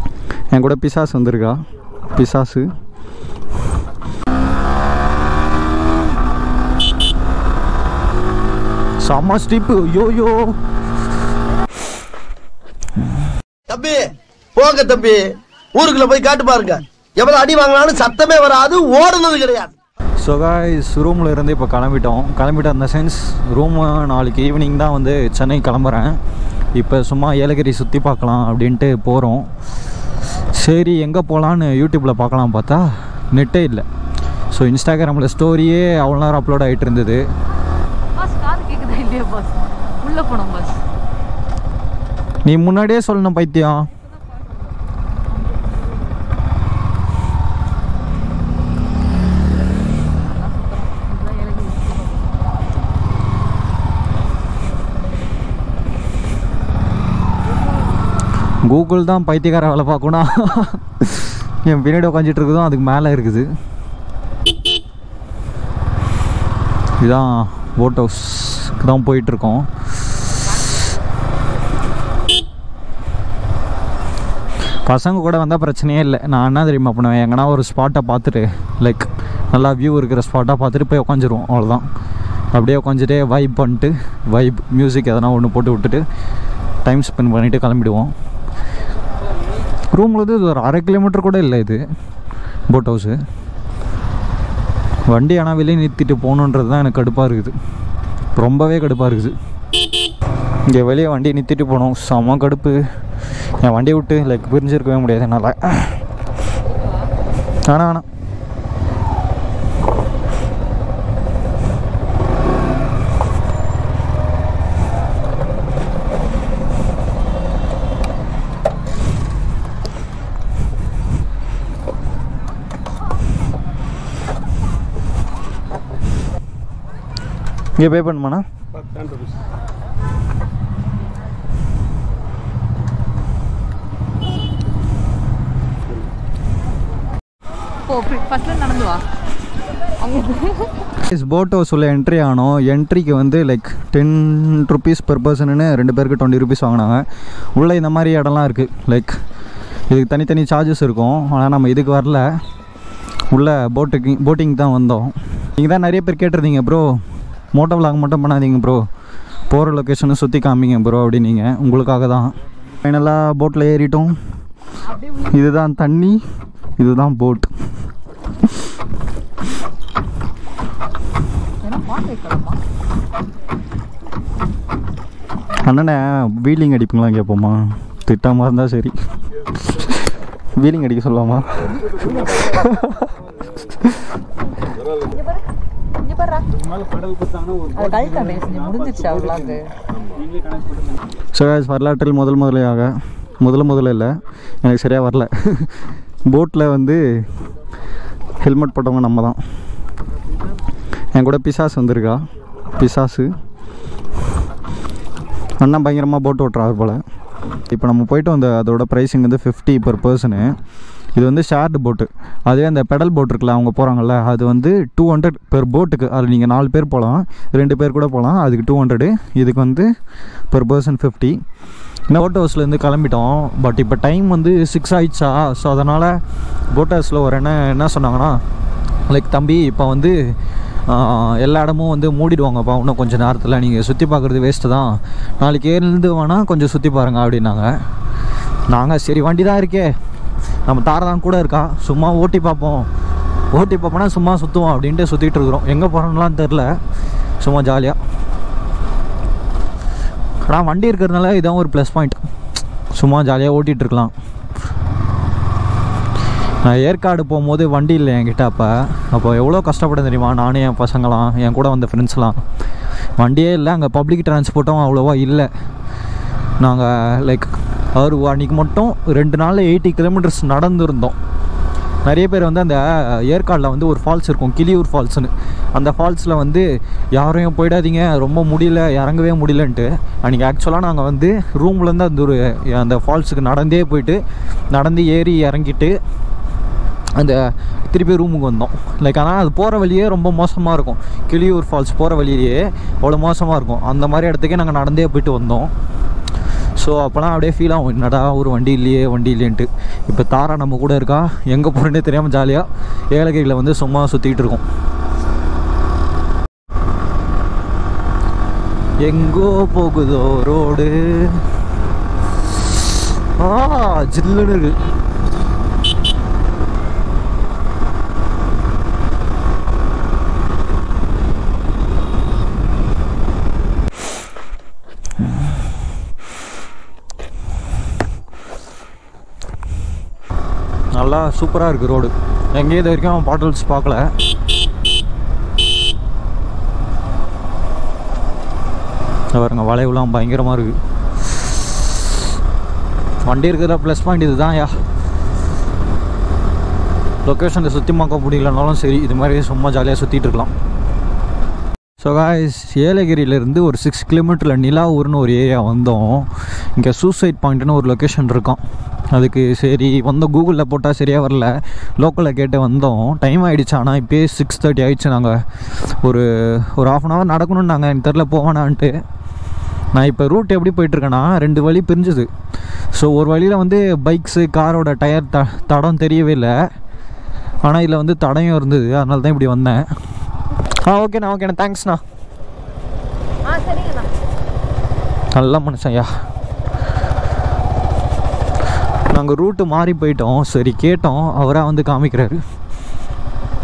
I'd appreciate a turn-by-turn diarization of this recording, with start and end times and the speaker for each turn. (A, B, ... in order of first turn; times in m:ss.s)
0:00.5-0:01.6 A
0:02.1-0:02.7 A
0:09.0-0:10.6 A
0:13.7-0:19.7 B
0:20.2-0:26.2 A
0:26.7-0:29.5 A
0:30.5-0:33.8 A
0:34.5-0:37.2 A
0:38.2-0:40.8 C
0:42.4-0:43.9 A
0:45.3-0:46.0 C
0:50.0-0:52.4 C
0:58.6-1:03.5 A
1:07.0-1:09.7 A
1:14.8-1:21.9 A
1:22.5-1:26.0 A
1:26.8-1:28.1 A
1:29.9-1:31.8 A
1:32.7-1:33.2 A
1:35.1-1:37.5 A
1:38.3-1:39.3 A
1:40.7-1:42.8 A
1:43.6-1:46.0 A
1:47.6-1:48.0 A
2:07.8-2:08.4 A
2:17.8-2:19.0 C
2:20.0-2:20.7 C
2:21.0-2:29.2 A
2:29.9-2:32.2 A
2:33.3-2:37.0 A
2:37.5-2:38.8 A
2:39.5-2:44.2 A
2:44.8-2:45.4 C
2:45.2-2:46.2 A
2:46.8-2:47.5 A
2:51.6-2:52.6 C
2:55.6-2:58.9 A
2:59.6-3:03.1 A
3:02.0-3:02.5 C
3:03.6-3:04.0 A
3:06.0-3:06.6 C
3:07.6-3:09.7 C
3:11.3-3:17.2 A
3:18.4-3:19.4 A
3:21.1-3:22.2 A
3:22.8-3:23.3 A
3:25.6-3:27.0 A
3:27.6-3:30.5 A
3:31.2-3:39.9 A
3:40.5-3:41.4 A
3:42.1-3:46.2 A
3:46.7-3:48.4 A
3:49.1-3:50.4 A
3:50.9-3:57.8 A
3:58.7-3:59.9 A
4:00.7-4:02.9 A
4:03.5-4:06.7 A
4:07.4-4:08.0 A
4:10.4-4:12.2 A
4:12.9-4:14.1 A
4:16.6-4:22.4 A
4:23.2-4:25.5 A
4:26.6-4:31.2 A
4:32.0-4:46.0 A
4:47.2-4:55.7 A
4:56.8-5:04.6 A
5:09.0-5:11.5 A
5:13.4-5:14.8 A
5:30.9-5:34.1 A
5:39.3-5:40.8 A
5:43.2-5:44.7 A
5:47.2-5:50.5 A
5:52.0-5:58.6 A
5:59.1-6:08.9 A
6:09.9-6:12.3 A
6:12.9-6:16.5 A
6:17.6-6:19.9 A
6:20.7-6:22.0 A
6:23.4-6:24.1 C
6:25.3-6:26.1 A
6:29.1-6:32.4 A